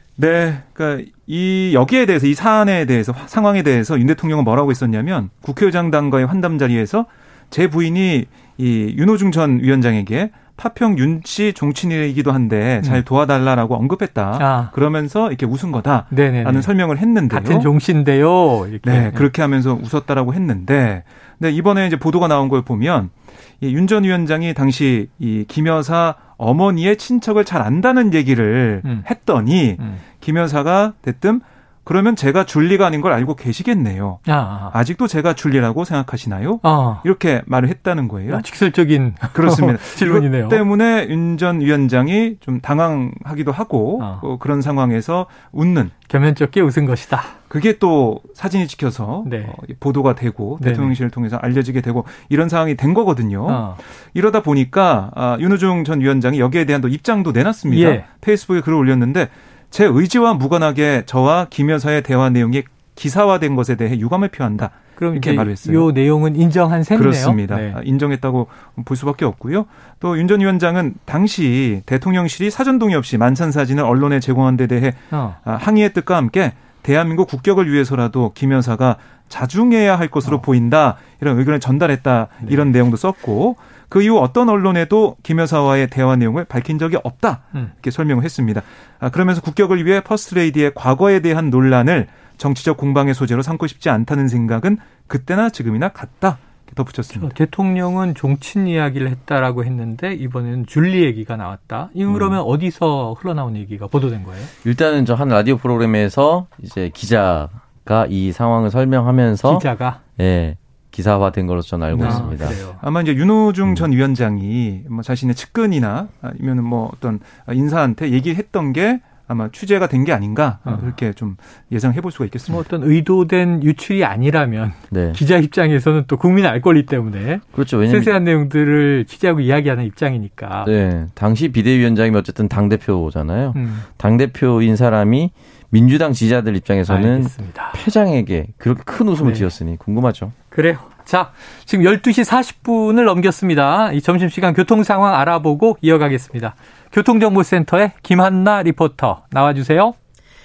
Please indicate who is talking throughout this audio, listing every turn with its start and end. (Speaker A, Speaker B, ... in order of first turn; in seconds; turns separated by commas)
Speaker A: 0.2-17.7, Speaker B: 14.4-14.7, Speaker B: 16.1-16.7, Speaker B: 17.3-19.2, Speaker A: 18.8-38.5, Speaker B: 29.8-30.0, Speaker B: 34.3-34.8, Speaker B: 36.6-37.0, Speaker B: 38.3-40.6, Speaker A: 39.3-45.9, Speaker B: 44.0-44.3, Speaker B: 46.1-47.4, Speaker A: 47.5-65.9, Speaker B: 49.2-49.6, Speaker B: 50.6-51.0, Speaker B: 53.5-53.8, Speaker B: 57.7-58.0, Speaker B: 65.0-67.8, Speaker A: 66.9-97.3, Speaker B: 75.1-75.4, Speaker B: 97.1-104.5, Speaker C: 102.1-102.4, Speaker C: 104.6-109.7, Speaker B: 109.4-110.0, Speaker C: 110.2-112.6, Speaker A: 111.9-122.6, Speaker B: 112.0-112.8, Speaker B: 120.6-120.9, Speaker B: 122.5-130.7, Speaker C: 124.9-125.2, Speaker C: 127.5-128.1, Speaker C: 130.6-140.3, Speaker B: 133.5-133.9, Speaker B: 136.9-137.8, Speaker B: 139.2-139.5, Speaker B: 140.5-149.9